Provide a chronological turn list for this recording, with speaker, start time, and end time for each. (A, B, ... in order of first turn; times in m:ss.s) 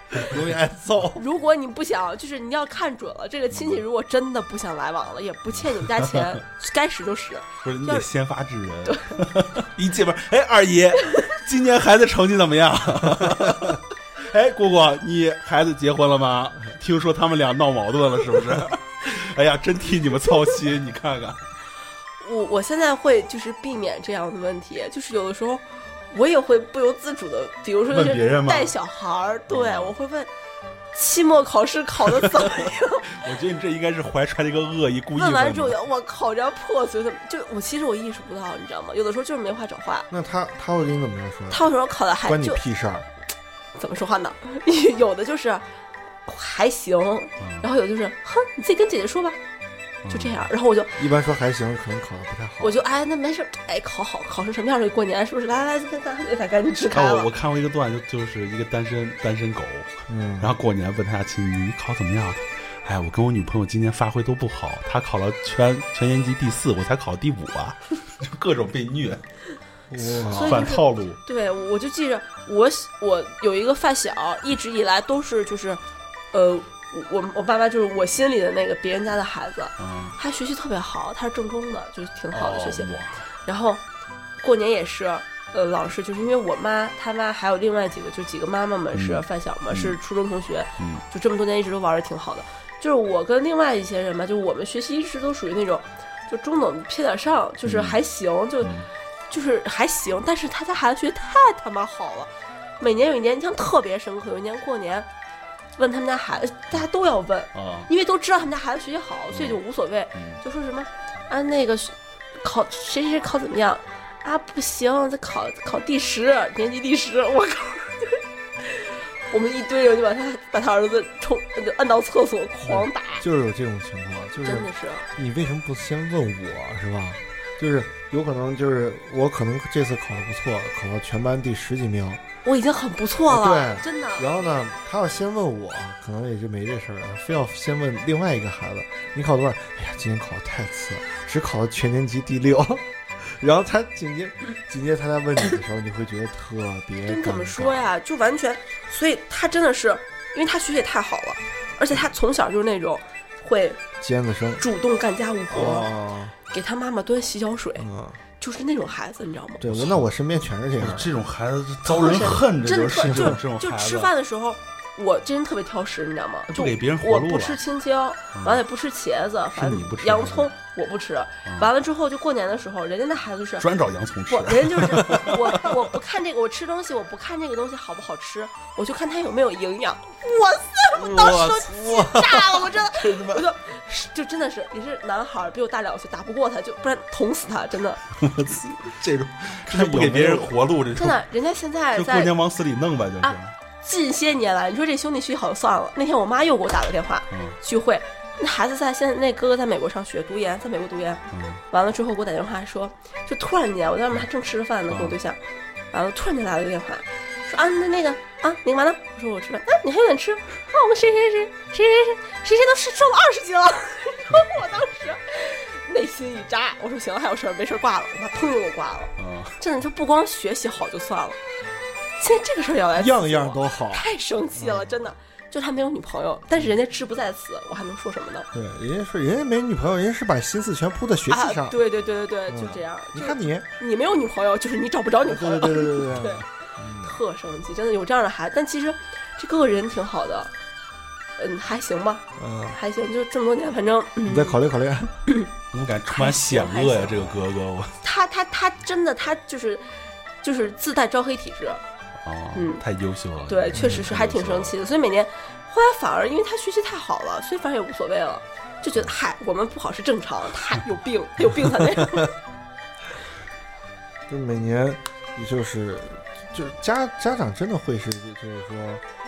0:00.2-0:01.2 A
0:01.2-0:08.1 B
0:03.5-0:03.8 C
0:05.7-0:06.2 C
0:07.6-0:21.5 C
0:08.9-0:09.1 B
0:22.2-0:30.3 B
0:27.9-0:28.7 C
0:29.5-0:29.9 C
0:30.9-0:33.3 B
0:32.3-0:32.6 C
0:33.1-0:35.8 C
0:35.2-0:40.1 B
0:40.1-0:41.7 A
0:41.5-0:42.6 B
0:42.2-0:43.1 A
0:43.8-0:45.7 B
0:46.2-0:49.4 B
0:47.4-0:47.7 C
0:50.0-0:50.5 C
0:50.1-0:51.0 B
0:51.0-0:52.8 A
0:52.6-0:57.3 B
0:56.9-1:09.2 C
1:00.1-1:00.6 A
1:09.9-1:10.7 A
1:10.2-1:11.2 C
1:10.2-1:22.9 B
1:19.8-1:20.2 C
1:22.3-1:23.3 C
1:23.4-1:23.8 B
1:24.4-1:38.8 B
1:28.9-1:30.0 C
1:30.8-1:31.0 C
1:37.6-1:38.0 C
1:38.6-1:38.9 C
1:39.3-1:45.1 B
1:45.8-2:03.2 B
1:47.5-1:47.9 C
1:49.3-1:49.6 C
1:50.1-1:50.4 C
2:02.6-2:12.2 A
2:04.4-2:05.1 B
2:12.4-2:14.3 B
2:13.3-2:27.9 A
2:27.0-2:33.8 B
2:34.0-2:34.6 A
2:34.6-2:35.9 B
2:35.5-2:36.4 A
2:36.5-2:37.9 B
2:37.8-2:38.2 A
2:38.4-2:39.6 B
2:39.6-2:41.1 A
2:39.6-2:40.1 C
2:40.8-2:44.1 C
2:41.8-2:53.7 B
2:43.1-2:43.4 A
2:46.5-2:47.6 C
2:48.3-2:48.6 C
2:49.5-2:50.5 C
2:51.4-2:51.7 C
2:53.6-2:55.8 C
2:54.3-3:08.0 B
3:01.2-3:02.3 A
3:01.2-3:01.8 C
3:02.6-3:03.4 C
3:08.2-3:11.2 C
3:09.7-3:10.5 A
3:10.9-3:12.3 B
3:11.9-3:13.6 C
3:13.2-3:25.4 B
3:17.3-3:17.6 C
3:21.3-3:21.6 C
3:24.9-3:25.2 C
3:25.9-3:41.4 B
3:39.2-3:39.6 C
3:42.2-3:48.5 B
3:43.0-3:45.0 A
3:48.5-3:51.8 A
3:51.3-3:56.4 B
3:52.5-3:53.7 A
3:55.2-3:57.2 A
3:57.0-4:00.5 B
4:01.4-4:04.6 B
4:02.4-4:02.8 A
4:04.2-4:05.2 A
4:05.7-4:08.0 C
4:06.1-4:07.4 B
4:08.0-4:11.8 B
4:12.2-4:14.7 C
4:12.5-4:12.8 B
4:13.5-4:22.3 B
4:13.7-4:14.1 A
4:24.3-4:29.0 A